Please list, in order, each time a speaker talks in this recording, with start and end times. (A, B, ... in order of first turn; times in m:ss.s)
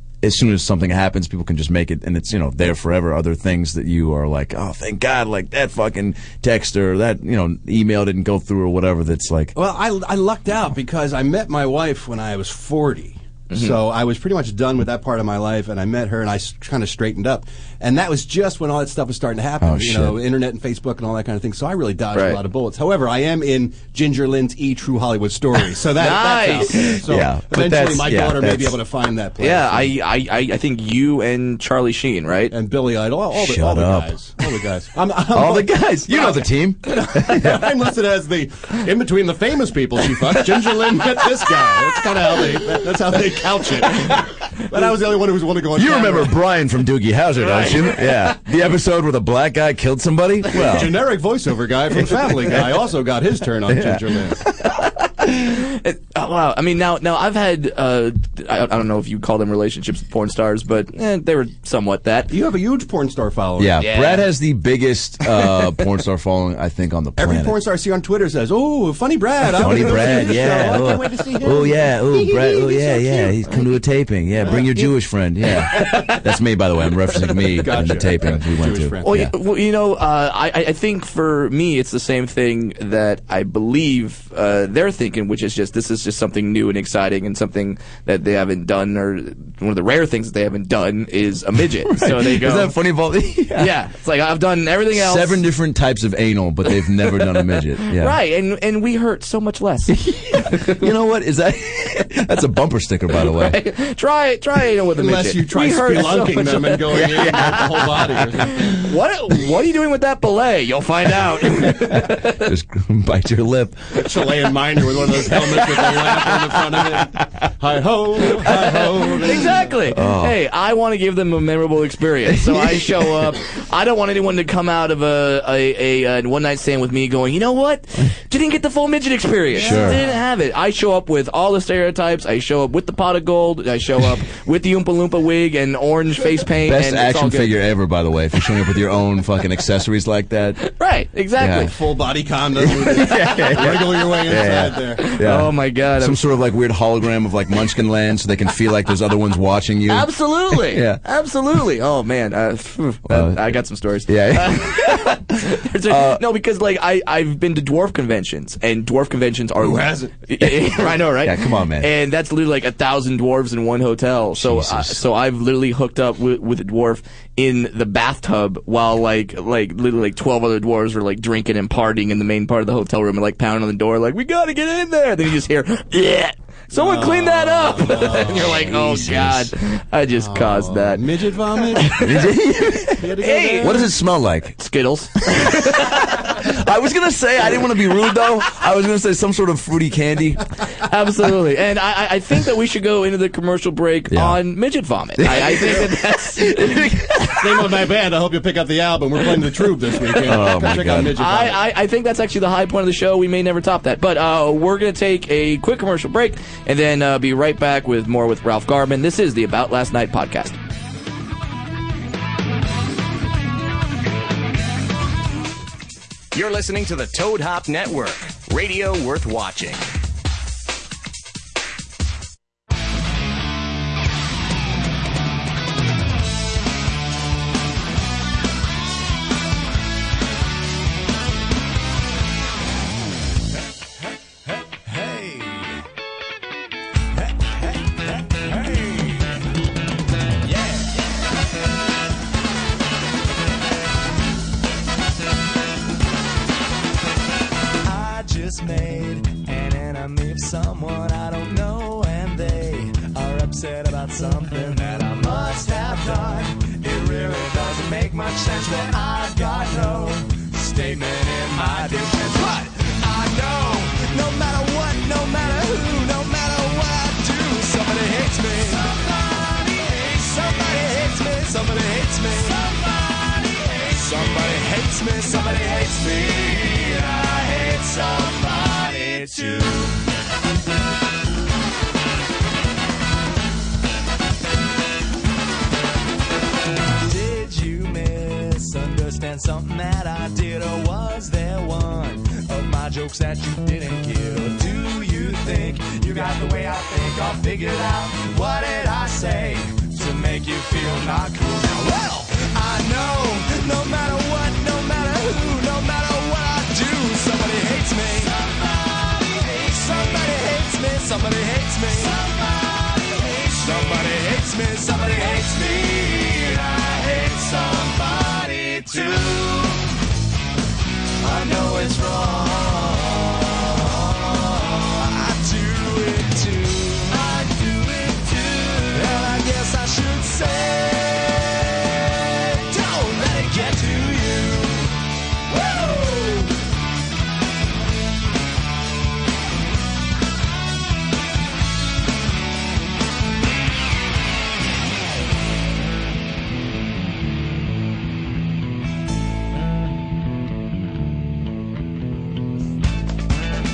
0:00.2-0:09.5 A
0:09.5-0:29.9 B
0:13.5-0:13.8 C
0:19.6-0:20.2 A
0:22.1-0:22.4 C
0:26.0-0:27.0 C
0:27.0-0:28.8 A
0:29.4-0:32.5 C
0:32.5-0:46.4 B
0:33.3-0:34.1 A
0:35.3-0:37.7 A
0:45.7-0:51.0 A
0:47.6-0:47.9 B
0:50.5-0:54.4 B
0:52.0-0:52.6 A
0:53.7-0:54.5 A
0:54.8-1:02.3 C
1:02.3-1:03.9 B
1:03.6-1:07.6 A
1:03.8-1:04.3 C
1:07.2-1:13.6 B
1:09.5-1:19.3 A
1:09.7-1:10.9 C
1:14.4-1:14.7 B
1:15.6-1:16.2 C
1:17.6-1:19.2 B
1:19.0-1:32.8 C
1:31.8-1:33.7 A
1:33.5-1:35.4 C
1:34.9-1:38.2 A
1:37.5-1:40.8 C
1:39.9-1:43.6 A
1:43.2-1:47.8 C
1:45.0-1:48.8 B
1:47.2-1:48.1 A
1:48.7-1:52.5 C
1:51.6-1:54.2 A
1:53.9-1:59.7 B
1:55.0-1:57.3 A
1:58.4-2:17.6 C
1:58.4-2:00.4 A
2:02.3-2:03.2 A
2:09.6-2:10.0 A
2:09.6-2:10.0 B
2:16.6-2:20.6 A
2:20.6-2:21.7 C
2:21.4-2:21.7 A
2:21.6-2:25.1 B
2:22.6-2:31.0 A
2:23.2-2:23.8 C
2:25.0-2:26.2 C
2:29.9-3:01.0 C
2:33.1-2:36.2 A
2:39.6-2:40.2 B
2:40.7-2:41.9 A
2:44.4-2:45.0 A
2:56.7-2:58.8 B
2:58.5-2:59.5 A
3:00.1-3:02.3 B
3:02.0-3:04.6 A
3:02.9-3:03.9 B
3:03.2-3:03.9 C
3:04.6-3:06.3 C
3:05.2-3:10.5 A
3:10.8-3:17.0 C
3:14.1-3:14.4 A
3:15.2-3:17.5 A
3:15.5-3:15.8 B
3:17.3-3:21.6 B
3:20.2-3:21.2 A
3:21.2-3:30.6 C
3:36.3-3:39.9 D
3:54.9-3:55.3 E
3:58.3-3:59.3 E
4:00.6-4:00.9 E
4:07.8-4:32.9 E
4:08.1-4:10.1 C
4:11.1-4:12.3 C
4:13.5-4:16.3 C
4:18.8-4:19.7 C
4:21.3-4:22.6 C
4:23.6-4:23.9 C
4:26.7-4:28.4 C
4:31.7-4:32.1 C
4:33.4-4:40.0 E
4:47.0-5:08.6 E
4:50.6-4:51.3 C
5:01.9-5:02.3 C
5:05.1-5:06.7 C
5:09.2-5:19.8 E
5:10.7-5:12.1 C
5:13.2-5:14.3 C
5:21.2-5:34.9 E
5:21.6-5:24.0 C
5:24.7-5:27.5 C
5:28.1-5:30.5 C
5:32.6-5:34.6 C
5:35.6-5:36.5 E